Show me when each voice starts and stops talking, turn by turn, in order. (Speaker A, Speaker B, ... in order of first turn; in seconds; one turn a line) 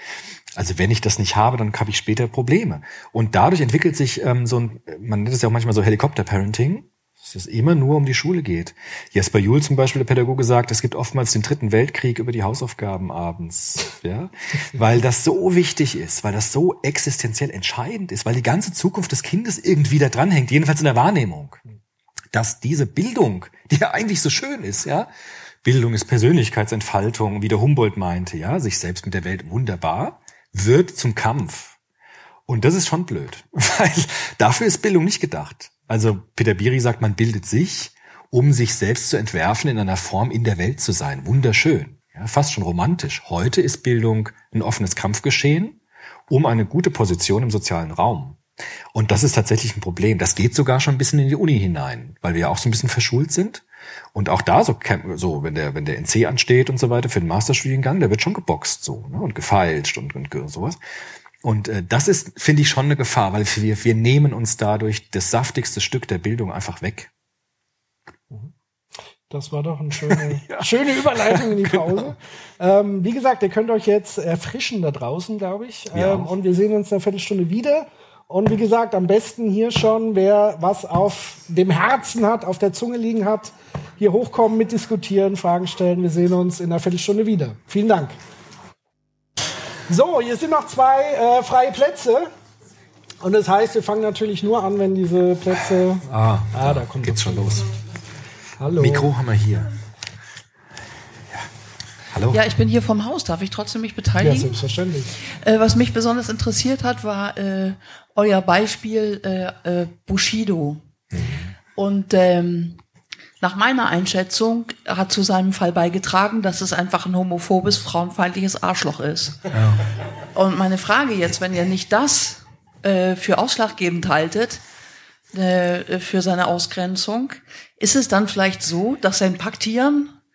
Speaker A: 0.6-21.6
Speaker A: 22.3-25.1
Speaker A: 25.6-31.8
Speaker A: 32.5-48.4
Speaker A: 48.9-60.8
Speaker A: 61.4-67.1
Speaker B: 69.3-88.2
Speaker A: 70.1-72.1
Speaker A: 75.9-76.3
Speaker B: 89.9-92.3
Speaker B: 93.2-97.7
Speaker A: 96.1-97.7
Speaker B: 98.6-99.1
Speaker A: 98.8-99.7
Speaker A: 102.1-102.4
Speaker C: 102.3-104.6
Speaker B: 104.2-105.2
Speaker C: 105.2-110.9
Speaker A: 111.1-111.5
Speaker C: 111.7-112.8
Speaker C: 113.4-119.4
Speaker A: 119.5-119.8
Speaker C: 120.3-124.6
Speaker C: 125.3-130.2